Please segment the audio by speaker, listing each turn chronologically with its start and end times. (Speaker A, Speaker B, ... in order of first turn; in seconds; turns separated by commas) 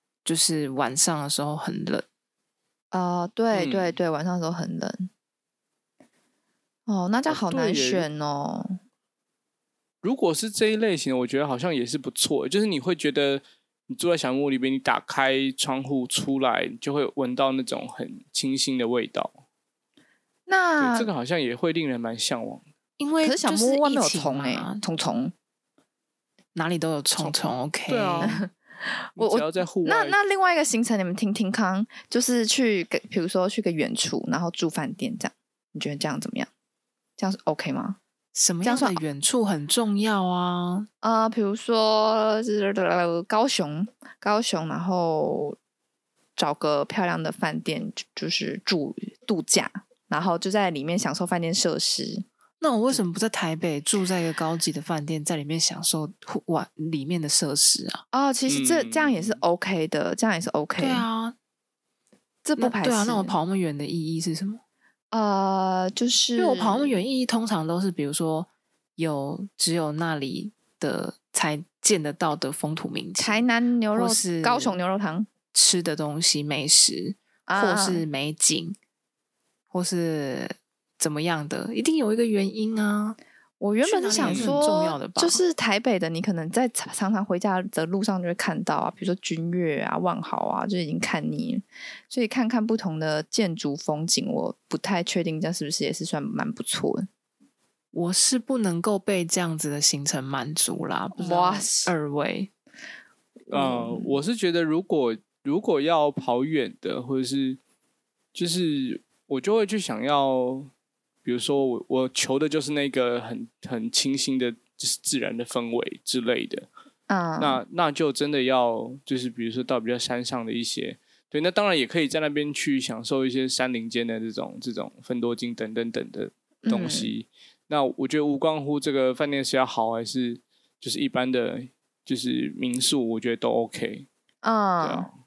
Speaker A: 0.2-2.0, Speaker B: 2.9-5.1, Speaker C: 3.5-4.0, Speaker B: 6.9-8.8, Speaker C: 7.3-8.1, Speaker C: 10.0-19.3, Speaker B: 20.5-21.1, Speaker C: 20.8-22.6, Speaker A: 23.0-24.8, Speaker B: 23.2-25.3, Speaker A: 26.5-28.4, Speaker C: 27.9-28.4, Speaker B: 28.2-28.5, Speaker B: 29.0-36.5, Speaker C: 29.2-30.2, Speaker B: 37.2-38.0, Speaker A: 38.3-40.9, Speaker B: 38.6-39.0, Speaker B: 41.0-45.6, Speaker B: 46.4-52.2, Speaker A: 52.6-58.0, Speaker B: 58.1-61.1, Speaker C: 58.5-59.4, Speaker A: 60.8-61.4, Speaker B: 62.4-63.4, Speaker A: 62.6-64.6, Speaker B: 65.1-67.0, Speaker A: 66.4-74.8, Speaker B: 73.2-75.3, Speaker A: 75.5-78.8, Speaker B: 77.5-78.0, Speaker A: 79.7-83.2, Speaker B: 83.6-97.1, Speaker A: 83.8-85.4, Speaker C: 84.2-84.6, Speaker A: 97.9-102.5, Speaker B: 101.2-101.9, Speaker B: 103.5-104.2, Speaker C: 103.5-107.6, Speaker C: 108.3-110.7, Speaker C: 111.2-116.7, Speaker B: 117.1-117.6, Speaker C: 117.4-134.1, Speaker B: 126.6-127.1, Speaker B: 134.4-135.1, Speaker C: 134.8-135.1